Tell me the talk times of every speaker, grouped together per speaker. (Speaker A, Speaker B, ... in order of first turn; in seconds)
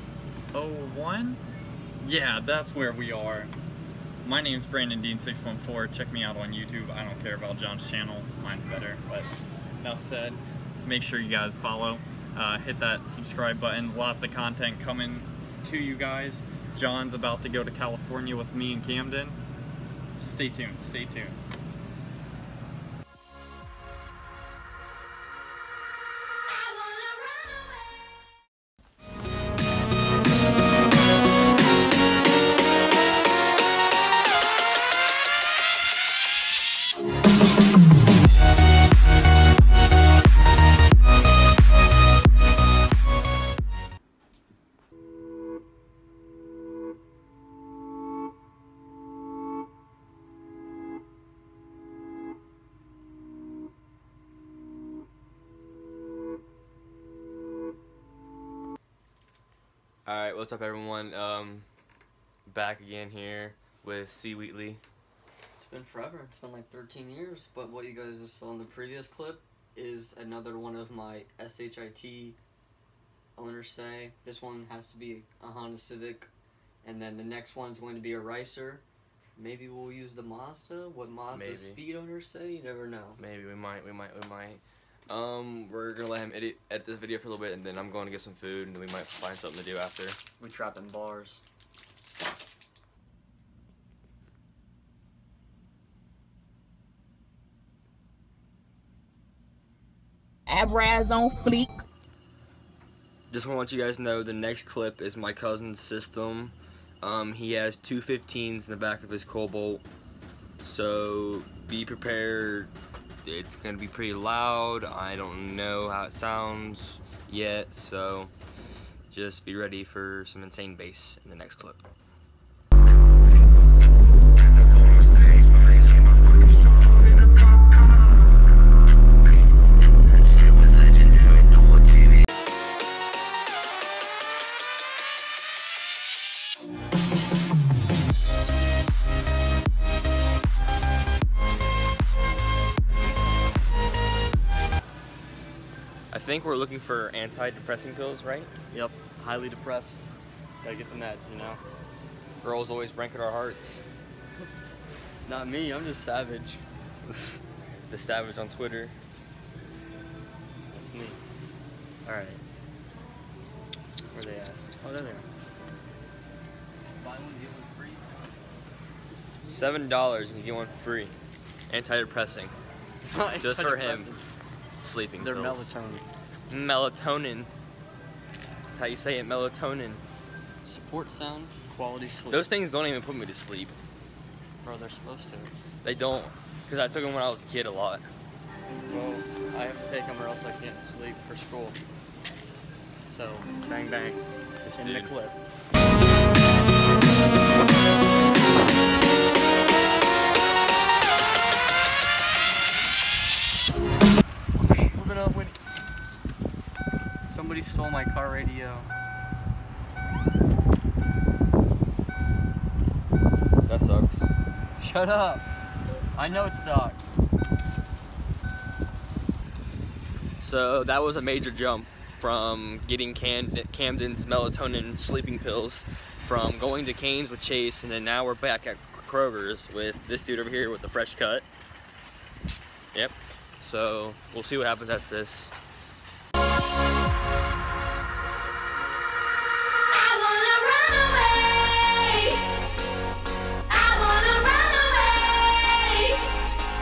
Speaker A: 0.5-1.4, 2.0-3.5, 4.2-19.4, 20.2-21.4
Speaker B: 60.0-61.7, 62.5-64.8, 81.3-81.8, 83.2-90.2, 103.3-109.8, 110.6-112.7, 113.2-118.3, 119.1-121.8, 124.6-127.5, 146.1-148.5, 152.4-153.8, 157.9-158.9, 169.4-171.1, 171.7-172.5, 173.4-174.1, 174.8-175.7, 176.5-177.5, 178.7-180.0, 182.3-183.7, 185.8-188.1, 194.6-195.1, 213.7-214.3, 220.4-231.5, 232.9-235.5
Speaker C: 65.6-72.4, 73.3-76.3, 76.8-78.8, 79.4-83.2, 90.4-91.4, 148.7-151.6, 155.2-156.6, 160.7-161.2, 162.1-162.4, 164.1-165.2, 167.0-168.2, 173.0-174.3, 175.2-176.0, 180.6-182.5, 184.6-185.5, 188.9-191.8, 193.1-194.2, 194.7-195.3, 202.4-202.9, 204.6-205.5, 207.3-208.9, 214.8-215.4, 216.1-217.2
Speaker D: 100.5-101.8, 239.9-242.4, 243.7-246.3